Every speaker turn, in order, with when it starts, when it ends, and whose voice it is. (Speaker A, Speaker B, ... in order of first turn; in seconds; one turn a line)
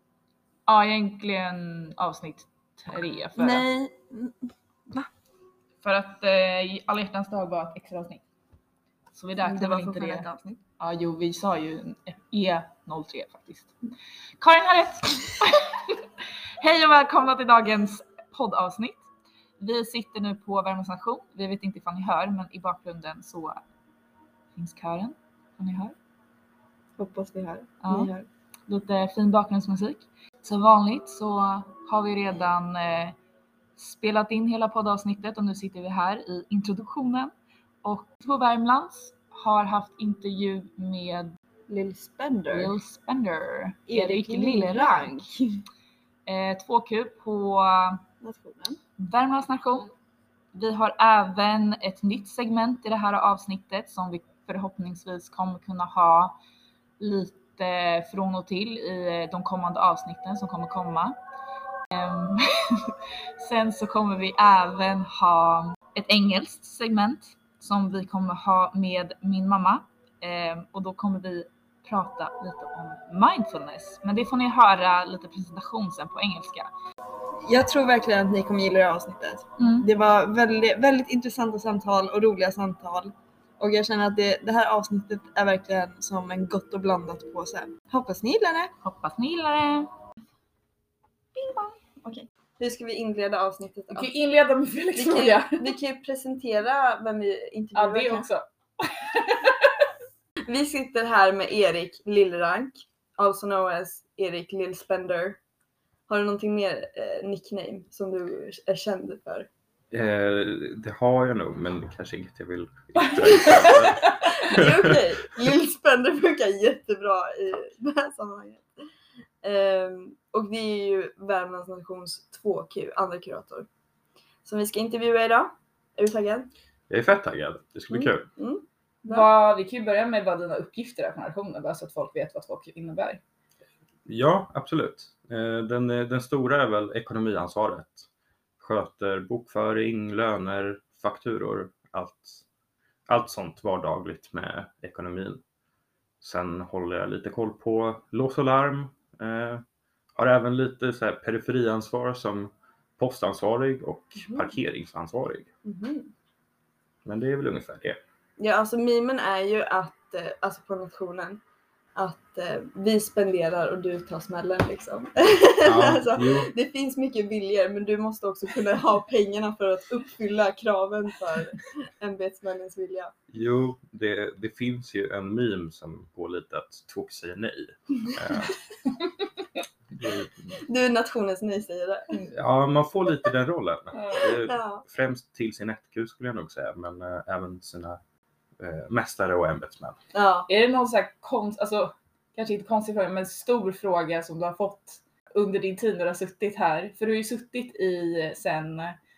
Speaker A: 0.7-3.6
Speaker B: 3.4-5.1
Speaker A: 5.8-8.2
Speaker A: 9.1-10.3
Speaker B: 9.4-10.6
Speaker A: 10.8-13.7
Speaker A: 14.4-15.9
Speaker A: 16.6-19.0
Speaker A: 19.6-23.6
Speaker A: 24.5-25.9
Speaker B: 27.0-28.2
Speaker A: 27.8-28.1
Speaker A: 28.7-33.1
Speaker A: 33.8-37.3
Speaker A: 37.8-41.3
Speaker B: 41.7-42.7
Speaker A: 42.5-45.3
Speaker B: 43.9-45.6
Speaker A: 46.2-48.0
Speaker B: 48.2-48.8
Speaker A: 49.0-49.9
Speaker A: 50.5-56.4
Speaker A: 57.0-61.2
Speaker A: 61.9-76.7
Speaker B: 77.4-88.7
Speaker A: 79.6-79.9
Speaker A: 88.8-89.9
Speaker B: 91.3-94.1
Speaker A: 93.9-95.7
Speaker B: 94.9-98.3
Speaker A: 97.7-99.7
Speaker B: 100.5-105.4
Speaker B: 106.1-109.5
Speaker C: 109.9-115.1
Speaker B: 113.4-118.7
Speaker B: 119.4-123.7
Speaker B: 124.4-126.5
Speaker C: 126.9-128.3
Speaker B: 127.9-129.3
Speaker A: 129.1-133.2
Speaker C: 134.1-138.1
Speaker C: 138.6-142.4
Speaker C: 143.1-145.4
Speaker C: 146.2-149.6
Speaker C: 150.2-155.5
Speaker B: 154.2-154.5
Speaker B: 155.6-156.1
Speaker C: 157.0-158.0
Speaker B: 158.4-161.4
Speaker B: 161.9-173.1
Speaker C: 165.6-166.5
Speaker C: 173.3-178.6
Speaker C: 179.9-180.6
Speaker B: 180.6-182.2
Speaker C: 182.3-188.0
Speaker A: 183.9-184.3
Speaker B: 184.3-184.8
Speaker C: 188.6-190.0
Speaker B: 190.1-190.5
Speaker A: 190.5-199.0